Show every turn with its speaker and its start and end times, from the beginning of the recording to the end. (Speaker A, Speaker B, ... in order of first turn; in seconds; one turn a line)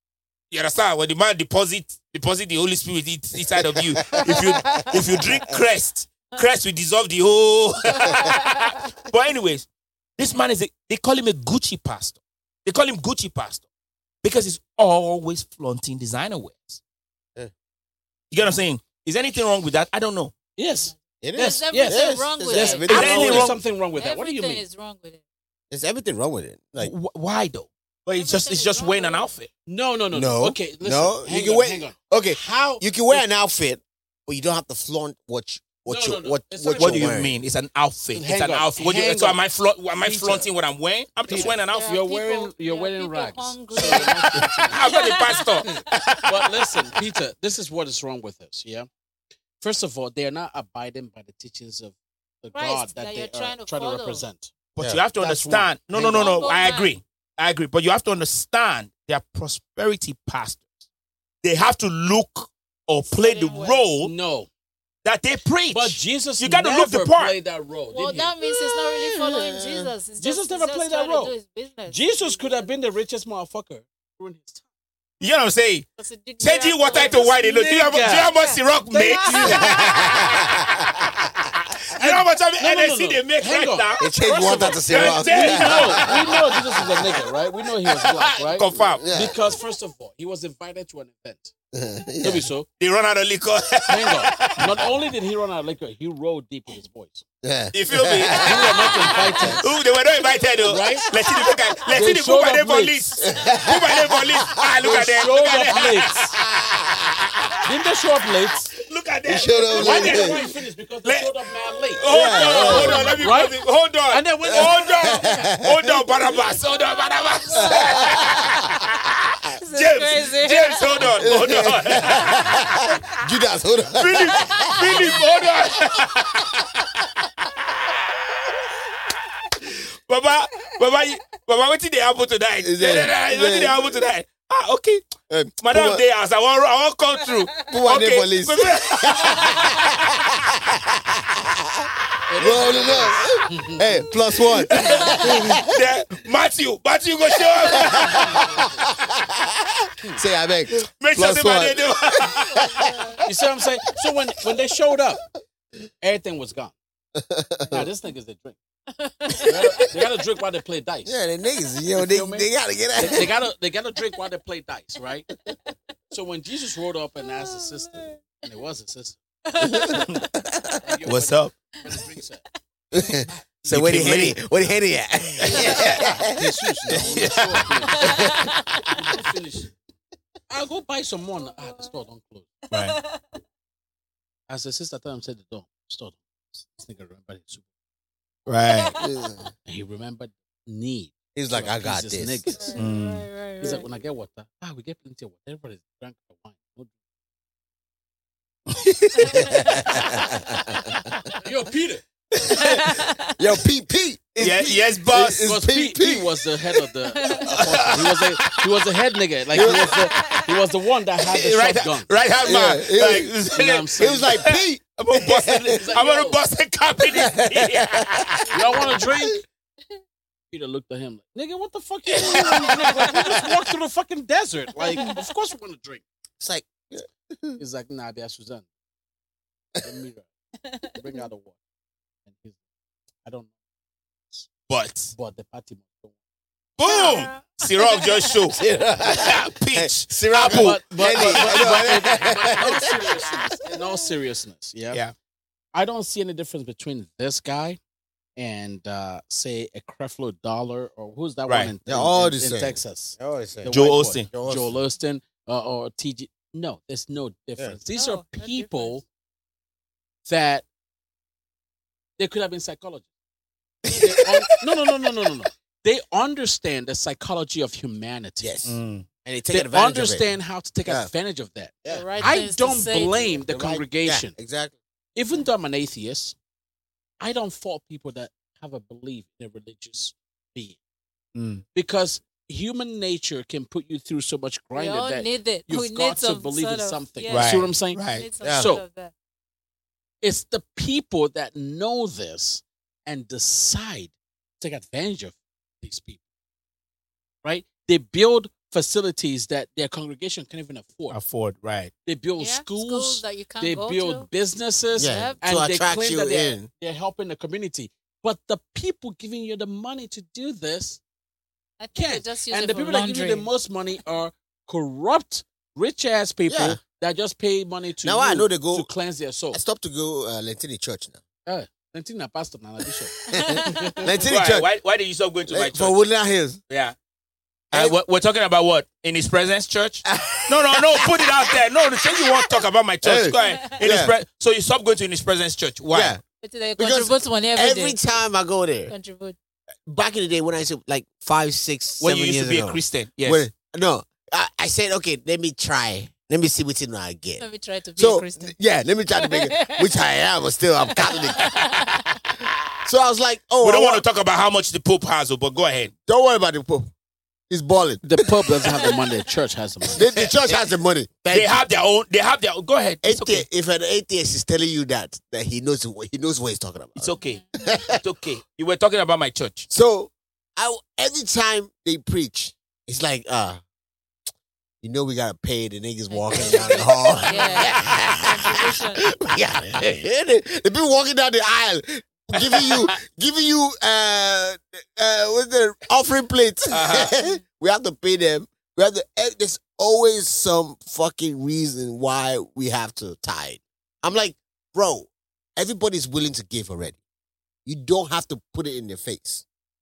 Speaker A: 0.5-13.7
Speaker B: 3.6-5.2
Speaker A: 14.2-16.8
Speaker A: 18.3-20.4
Speaker C: 20.6-24.6
Speaker B: 21.2-23.6
Speaker D: 21.3-25.2
Speaker A: 22.9-23.6
Speaker B: 25.7-26.9
Speaker A: 26.8-29.5
Speaker D: 28.1-29.3
Speaker C: 29.7-33.3
Speaker B: 30.1-37.3
Speaker C: 35.9-37.2
Speaker A: 36.8-42.0
Speaker C: 38.1-39.4
Speaker C: 40.0-40.5
Speaker C: 41.3-45.0
Speaker D: 41.3-45.8
Speaker B: 43.8-44.7
Speaker A: 44.7-46.3
Speaker C: 46.2-48.9
Speaker C: 49.6-54.5
Speaker D: 52.5-54.2
Speaker A: 54.8-60.8
Speaker C: 55.2-56.3
Speaker D: 56.1-57.0
Speaker A: 61.4-64.1
Speaker D: 63.1-63.9
Speaker C: 64.0-64.5
Speaker A: 65.0-67.3
Speaker C: 65.7-68.3
Speaker D: 67.9-72.7
Speaker B: 68.5-69.9
Speaker C: 70.2-71.3
Speaker C: 71.9-74.6
Speaker A: 75.2-75.9
Speaker D: 76.0-79.8
Speaker A: 76.4-80.6
Speaker C: 76.9-78.3
Speaker C: 78.9-79.8
Speaker B: 79.5-81.3
Speaker A: 81.9-84.1
Speaker C: 81.9-91.5
Speaker B: 84.0-87.2
Speaker A: 84.8-86.4
Speaker A: 87.9-89.0
Speaker B: 88.8-89.4
Speaker B: 91.7-92.5
Speaker C: 92.2-92.7
Speaker A: 92.8-94.9
Speaker C: 93.9-97.2
Speaker B: 97.4-99.6
Speaker A: 97.7-98.9
Speaker C: 98.4-99.6
Speaker D: 98.9-99.6
Speaker A: 99.4-106.3
Speaker C: 100.6-101.1
Speaker C: 101.9-103.0
Speaker B: 103.2-105.0
Speaker C: 104.8-106.3
Speaker B: 106.3-107.3
Speaker A: 107.3-107.7
Speaker C: 107.7-108.7
Speaker A: 108.7-110.5
Speaker B: 109.3-110.4
Speaker C: 109.8-115.5
Speaker A: 111.0-111.3
Speaker A: 111.9-119.1
Speaker B: 112.1-113.1
Speaker B: 115.0-116.0
Speaker B: 117.6-118.5
Speaker D: 119.6-121.1
Speaker A: 119.7-122.8
Speaker B: 121.0-125.2
Speaker A: 123.9-126.9
Speaker D: 124.4-125.0
Speaker A: 127.4-127.9
Speaker A: 129.6-139.8
Speaker B: 132.6-134.0
Speaker B: 135.3-136.0
Speaker B: 137.7-145.8
Speaker C: 142.3-144.1
Speaker A: 144.6-148.4
Speaker B: 147.7-153.2
Speaker A: 150.7-152.7
Speaker C: 153.2-155.2
Speaker C: 156.0-156.8
Speaker B: 157.2-157.9
Speaker C: 157.7-158.6
Speaker D: 158.9-159.6
Speaker C: 159.4-161.1
Speaker B: 161.1-163.3
Speaker C: 161.9-165.3
Speaker C: 166.1-169.2
Speaker D: 167.2-168.4
Speaker D: 169.5-170.1
Speaker B: 169.6-170.8
Speaker C: 170.8-172.4
Speaker A: 171.1-171.5
Speaker B: 172.9-177.0
Speaker A: 173.7-174.4
Speaker D: 175.6-175.8
Speaker C: 175.8-178.3
Speaker A: 176.9-177.7
Speaker D: 177.9-179.0
Speaker B: 178.0-178.5
Speaker C: 178.9-179.7
Speaker C: 180.5-182.6
Speaker D: 181.4-181.9
Speaker A: 182.7-183.0
Speaker D: 182.7-183.4
Speaker C: 184.5-187.7
Speaker A: 188.5-188.9
Speaker D: 188.7-189.0
Speaker B: 189.0-189.5
Speaker C: 189.7-192.9
Speaker B: 191.3-192.4
Speaker D: 192.5-193.9
Speaker A: 192.8-193.3
Speaker C: 193.6-196.9
Speaker A: 198.7-199.5
Speaker B: 199.3-201.2
Speaker C: 201.4-202.0
Speaker D: 202.5-203.3
Speaker A: 202.5-202.8
Speaker B: 203.4-206.4
Speaker A: 204.4-205.5
Speaker C: 205.4-212.1
Speaker D: 207.1-207.5
Speaker A: 207.5-208.8
Speaker B: 209.5-210.0
Speaker A: 211.2-218.5
Speaker B: 212.4-215.8
Speaker C: 213.5-214.3
Speaker C: 215.7-216.4
Speaker B: 217.1-218.2
Speaker D: 218.5-219.1
Speaker C: 218.5-219.4
Speaker B: 219.0-219.3
Speaker C: 220.5-226.0
Speaker A: 222.1-223.4
Speaker B: 226.4-227.6
Speaker C: 227.6-228.7
Speaker C: 229.8-230.3
Speaker D: 230.6-231.3
Speaker C: 230.9-231.6
Speaker C: 232.3-232.6
Speaker C: 233.2-233.5
Speaker A: 234.7-235.1
Speaker C: 235.1-236.2
Speaker A: 236.8-241.8
Speaker D: 236.8-238.3
Speaker B: 238.5-243.2
Speaker C: 240.4-245.0
Speaker C: 245.7-247.8
Speaker C: 248.4-259.0
Speaker A: 251.5-251.7
Speaker B: 251.9-254.8
Speaker A: 253.7-254.3
Speaker D: 257.9-259.0
Speaker C: 260.3-260.7
Speaker C: 262.2-263.1
Speaker B: 263.9-264.5
Speaker C: 263.9-268.6
Speaker B: 268.4-271.1
Speaker A: 268.6-269.1
Speaker C: 269.5-274.3
Speaker B: 271.8-272.4
Speaker D: 271.9-273.4
Speaker B: 273.5-274.8
Speaker C: 275.1-276.4
Speaker C: 277.2-280.8
Speaker A: 281.4-281.6
Speaker C: 281.7-288.8
Speaker D: 284.8-289.1
Speaker A: 287.3-288.3
Speaker B: 288.4-288.7
Speaker C: 290.2-296.2
Speaker C: 297.4-301.2
Speaker A: 301.1-301.9
Speaker C: 302.1-311.0
Speaker D: 302.4-304.3
Speaker B: 305.0-306.7
Speaker D: 305.0-305.4
Speaker D: 311.8-313.5
Speaker C: 311.9-319.6
Speaker B: 316.5-316.8
Speaker B: 318.0-318.9
Speaker B: 319.5-321.2
Speaker C: 321.5-324.1
Speaker B: 323.3-324.7
Speaker D: 323.4-323.9
Speaker A: 324.2-326.0
Speaker B: 325.5-326.6
Speaker A: 326.7-326.9
Speaker B: 327.7-328.0
Speaker A: 327.7-336.2
Speaker B: 330.1-331.6
Speaker B: 332.2-332.5
Speaker B: 333.0-334.1
Speaker D: 333.4-333.7
Speaker B: 335.9-336.2
Speaker D: 336.4-338.0
Speaker B: 336.8-338.9
Speaker D: 338.9-339.4
Speaker B: 339.9-347.4
Speaker A: 342.0-343.5
Speaker D: 347.4-348.6
Speaker B: 348.0-351.7
Speaker D: 349.1-349.9
Speaker D: 350.9-352.1
Speaker B: 352.9-354.1
Speaker A: 353.6-355.9
Speaker B: 356.1-356.9
Speaker B: 357.5-358.9
Speaker C: 358.0-360.1
Speaker B: 359.9-361.6
Speaker A: 361.3-363.5
Speaker B: 363.0-368.0
Speaker A: 367.0-367.4
Speaker D: 367.2-367.6
Speaker A: 367.9-369.7
Speaker B: 369.7-373.6
Speaker B: 374.8-397.0
Speaker D: 376.1-379.1
Speaker A: 382.4-382.9
Speaker A: 386.7-387.1
Speaker B: 397.7-399.4